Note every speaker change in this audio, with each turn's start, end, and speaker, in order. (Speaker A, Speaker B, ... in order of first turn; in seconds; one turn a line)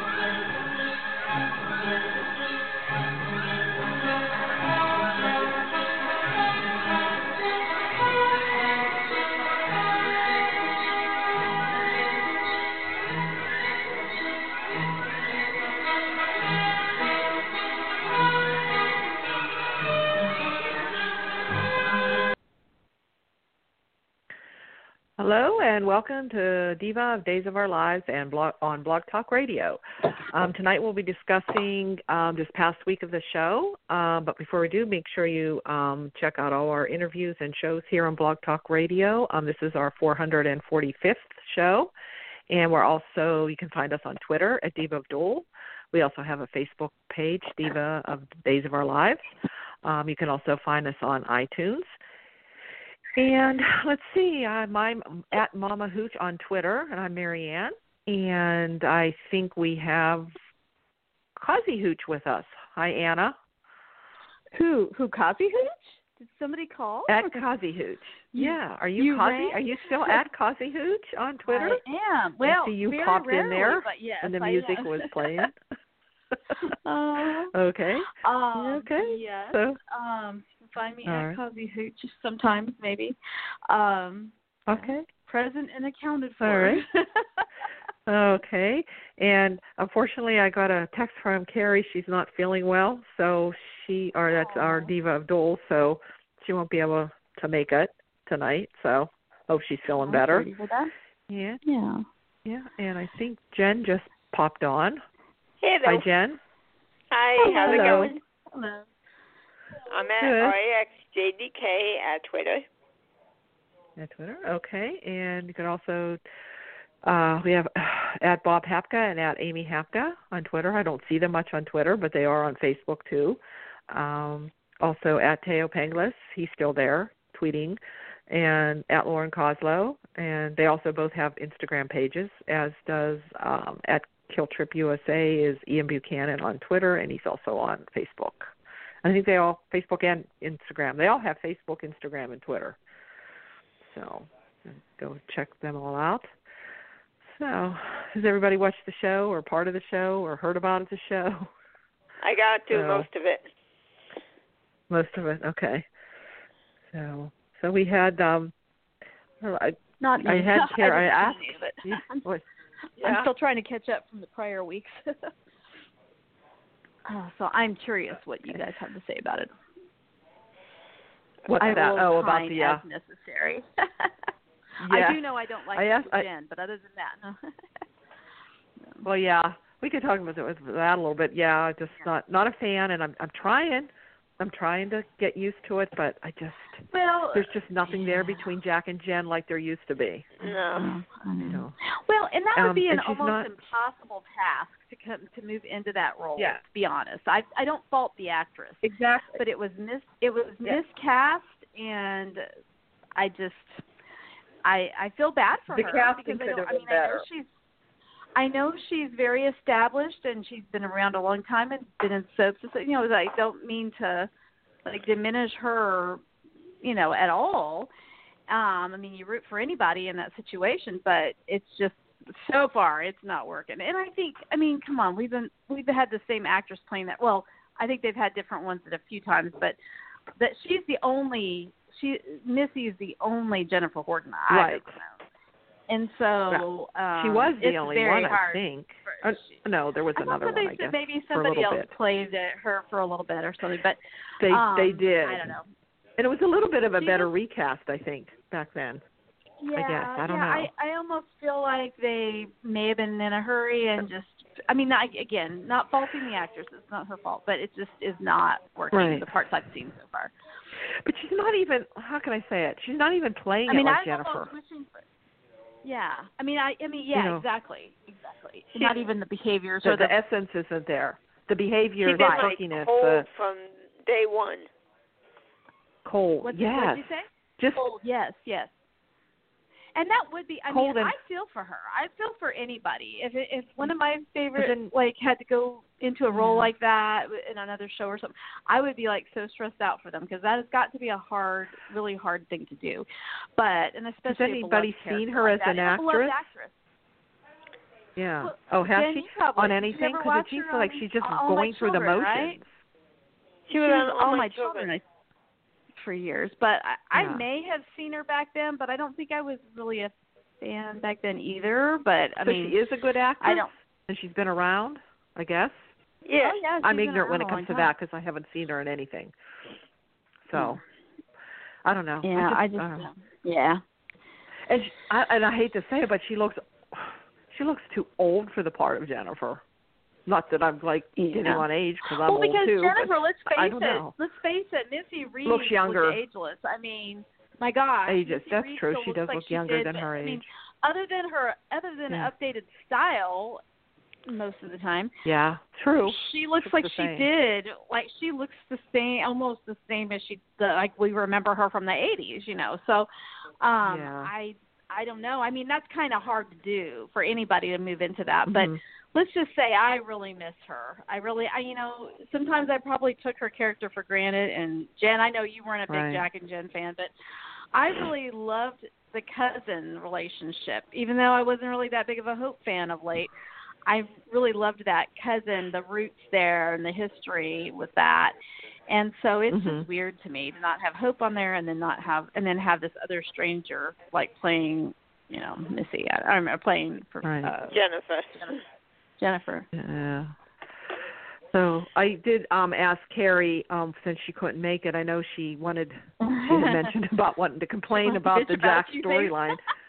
Speaker A: 25.2-41.9
Speaker A: 42.5-49.2
Speaker A: 49.8-51.9
Speaker A: 53.1-60.3
Speaker A: 61.4-63.4
Speaker B: 64.5-67.5
Speaker A: 67.1-71.8
Speaker B: 68.3-70.2
Speaker B: 71.5-75.5
Speaker A: 72.5-75.5
Speaker B: 76.6-77.5
Speaker A: 77.5-79.8
Speaker B: 78.2-83.2
Speaker A: 81.0-81.4
Speaker B: 83.7-87.5
Speaker A: 84.7-85.0
Speaker A: 86.4-86.8
Speaker A: 88.1-100.5
Speaker B: 94.3-94.9
Speaker B: 99.9-100.9
Speaker A: 101.3-101.6
Speaker B: 101.6-102.0
Speaker A: 102.4-105.0
Speaker C: 105.6-106.0
Speaker A: 105.8-106.4
Speaker C: 107.1-108.2
Speaker B: 107.4-108.9
Speaker A: 107.6-108.1
Speaker C: 109.9-112.7
Speaker A: 110.2-110.5
Speaker A: 114.0-116.2
Speaker A: 117.0-138.5
Speaker A: 139.0-142.8
Speaker A: 143.8-146.3
Speaker A: 147.2-151.5
Speaker C: 152.2-153.5
Speaker A: 152.7-153.1
Speaker A: 154.9-155.9
Speaker A: 156.9-158.5
Speaker A: 159.4-162.4
Speaker B: 160.0-162.2
Speaker A: 163.0-163.3
Speaker B: 163.0-165.3
Speaker B: 167.1-169.5
Speaker A: 171.5-172.8
Speaker B: 171.6-174.1
Speaker A: 174.8-175.2
Speaker B: 174.8-177.5
Speaker A: 175.7-176.3
Speaker A: 179.0-190.3
Speaker B: 186.9-188.5
Speaker C: 190.4-190.9
Speaker B: 190.4-202.4
Speaker A: 191.4-191.7
Speaker A: 192.5-193.5
Speaker A: 198.9-199.3
Speaker B: 203.2-203.8
Speaker B: 204.6-207.5
Speaker A: 205.7-207.2
Speaker B: 208.3-214.3
Speaker B: 214.8-216.2
Speaker B: 216.8-217.9
Speaker B: 218.5-229.8
Speaker B: 230.4-235.2
Speaker A: 234.5-235.0
Speaker B: 235.9-239.6
Speaker A: 237.2-241.9
Speaker B: 240.2-245.7
Speaker A: 244.4-245.5
Speaker A: 246.2-249.0
Speaker B: 247.0-247.3
Speaker B: 249.6-260.3
Speaker A: 249.8-250.7
Speaker A: 258.9-259.3
Speaker A: 260.9-264.5
Speaker B: 263.7-265.0
Speaker B: 265.8-270.1
Speaker A: 267.1-267.4
Speaker C: 268.8-269.1
Speaker A: 269.8-273.2
Speaker C: 272.0-274.7
Speaker A: 276.0-277.9
Speaker B: 276.4-278.7
Speaker B: 279.9-296.8
Speaker A: 280.7-281.2
Speaker A: 284.6-284.9
Speaker A: 286.3-286.7
Speaker A: 294.3-296.5
Speaker A: 298.1-302.8
Speaker B: 298.4-302.6
Speaker C: 303.7-304.9
Speaker B: 303.7-305.0
Speaker B: 305.9-312.8
Speaker A: 307.1-307.4
Speaker A: 312.4-315.9
Speaker B: 313.4-313.7
Speaker C: 316.2-316.6
Speaker B: 316.4-317.9
Speaker A: 316.8-319.3
Speaker A: 320.4-320.8
Speaker B: 320.5-320.8
Speaker A: 321.8-323.1
Speaker B: 322.2-323.8
Speaker A: 324.6-329.6
Speaker A: 330.2-334.1
Speaker B: 331.2-343.6
Speaker A: 335.4-336.2
Speaker A: 338.1-340.4
Speaker B: 344.3-345.1
Speaker A: 345.2-347.3
Speaker B: 346.0-353.1
Speaker B: 353.6-367.1
Speaker A: 353.8-354.3
Speaker A: 358.5-358.8
Speaker A: 365.9-366.2
Speaker B: 367.7-373.3
Speaker B: 373.9-378.3
Speaker B: 378.9-387.8
Speaker A: 379.5-379.9
Speaker A: 387.2-387.5
Speaker C: 387.7-388.6
Speaker B: 389.2-389.7
Speaker A: 389.7-390.3
Speaker A: 391.5-399.6
Speaker B: 396.2-396.9
Speaker B: 397.9-399.5